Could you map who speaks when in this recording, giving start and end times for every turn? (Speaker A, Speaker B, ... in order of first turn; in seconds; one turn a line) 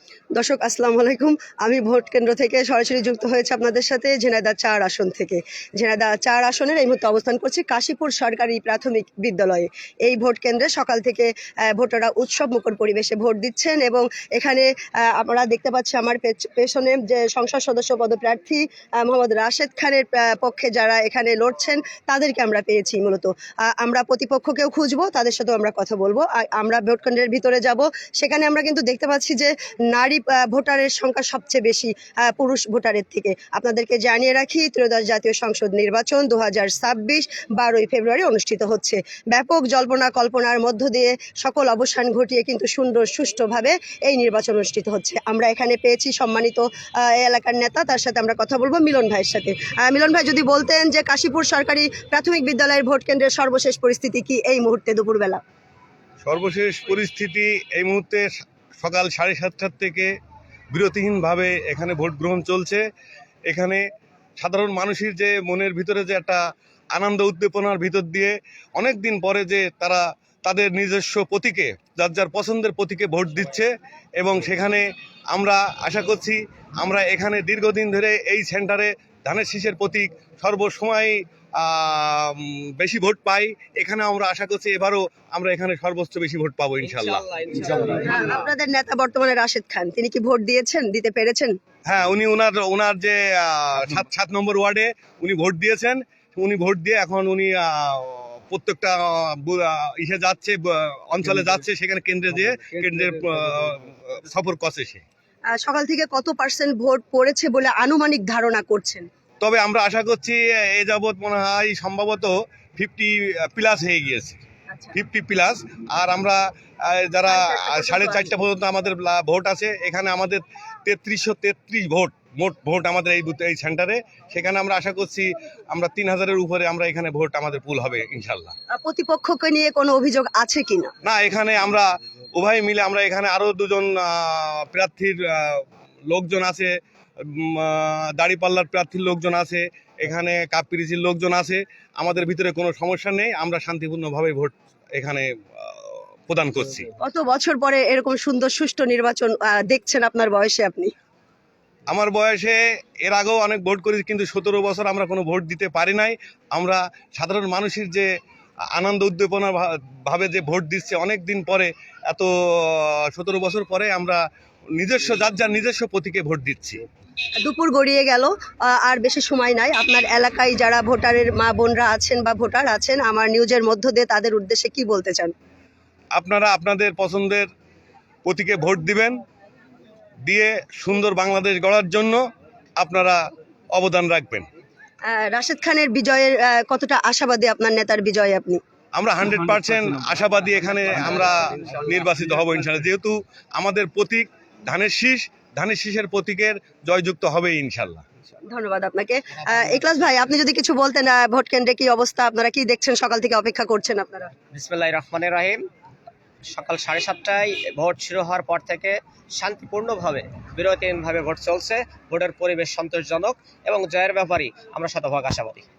Speaker A: 0.3-55.4
Speaker B: 56.2-60.1
Speaker B: 60.7-62.8
Speaker B: 63.5-63.8
Speaker B: 64.4-66.4
Speaker B: 66.9-73.7
Speaker B: 74.2-87.8
Speaker C: 86.8-88.4
Speaker A: 88.0-91.5
Speaker B: 91.9-105.0
Speaker A: 105.5-109.1
Speaker B: 109.4-114.4
Speaker A: 114.7-115.0
Speaker B: 114.9-128.5
Speaker A: 117.3-118.3
Speaker A: 128.7-130.9
Speaker B: 131.0-146.9
Speaker A: 147.0-150.9
Speaker B: 151.9-158.1
Speaker B: 158.7-164.2
Speaker B: 164.8-166.8
Speaker A: 167.4-175.3
Speaker B: 176.1-177.5
Speaker B: 178.2-179.2
Speaker B: 180.2-182.2
Speaker B: 182.8-183.2
Speaker B: 183.7-184.5
Speaker A: 185.1-188.6
Speaker B: 188.9-198.0
Speaker A: 198.5-204.3
Speaker C: 204.5-205.7
Speaker C: 206.5-215.6